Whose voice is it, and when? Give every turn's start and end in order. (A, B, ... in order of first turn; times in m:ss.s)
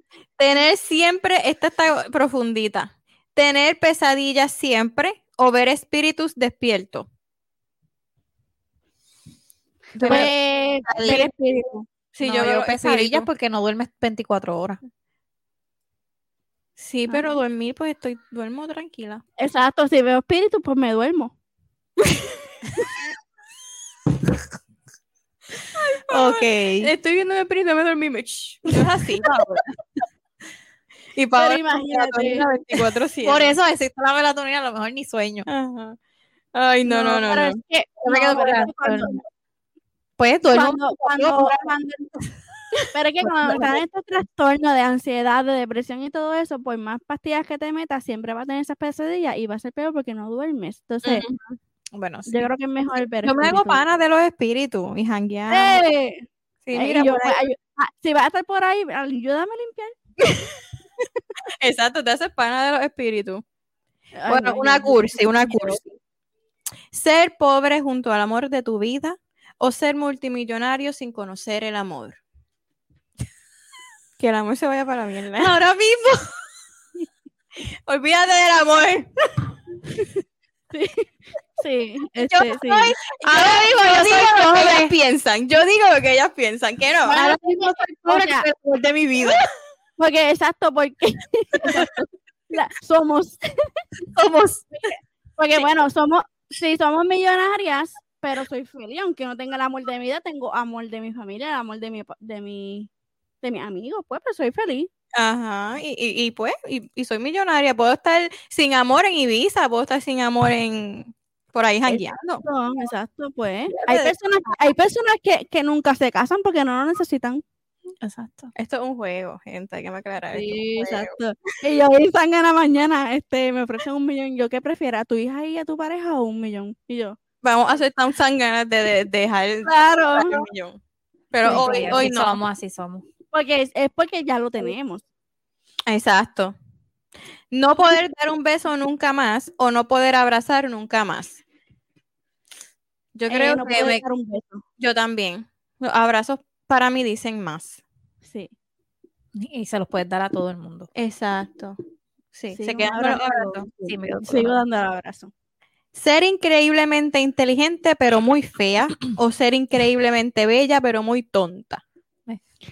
0:00.4-0:07.1 A
0:09.9-0:10.3 A
0:10.0-0:10.3 B
0:10.0-0:11.8 C
0:10.9-0:11.3 A
0:12.1-0:13.3 A
0:12.2-0:14.8 B
0:16.8-0:19.2 A
0:19.4-0:21.3 C
0:26.1-0:29.6 A
0:31.1-0:33.5 A
0:31.3-0:32.5 C
0:33.2-0:35.5 B
0:35.4-0:36.0 A
0:36.5-0:37.6 A
0:36.8-0:39.2 C
0:38.0-0:39.2 B
0:40.2-0:41.7 B
0:40.5-0:42.1 C
0:42.9-0:51.2 C
0:43.2-0:43.7 B
0:51.0-0:52.4 A
0:52.3-0:53.8 C
0:53.2-0:55.8 A
0:55.5-1:00.5 C
0:56.6-0:57.4 A
1:01.6-1:03.4 A
1:04.1-1:05.8 C
1:04.3-1:05.9 A
1:06.9-1:12.2 A
1:14.2-1:15.5 A
1:15.4-1:15.9 B
1:17.9-1:19.1 A
1:20.7-1:23.0 C
1:22.2-1:27.3 A
1:23.2-1:24.9 B
1:27.0-1:28.5 C
1:27.2-1:28.7 B
1:28.7-1:29.4 A
1:30.0-1:31.9 C
1:32.5-1:33.8 C
1:34.2-1:34.6 B
1:34.8-1:42.9 C
1:43.4-1:44.9 C
1:45.1-1:52.4 A
1:51.9-1:57.4 C
1:53.7-1:54.1 A
1:58.0-1:58.5 B
1:58.5-2:01.1 A
2:00.3-2:07.2 C
2:07.4-2:10.8 A
2:09.6-2:10.4 C
2:11.3-2:12.4 A
2:11.4-2:12.0 C
2:11.4-2:13.0 B
2:13.3-2:15.0 C
2:15.9-2:16.5 A
2:17.5-2:21.4 A
2:23.1-2:24.0 A
2:23.3-2:24.6 C
2:24.8-2:27.8 A
2:28.2-2:28.5 C
2:29.3-2:30.9 B
2:30.9-2:31.8 A
2:32.3-2:33.7 A
2:32.5-2:35.3 C
2:33.9-2:34.6 B
2:35.9-2:41.8 A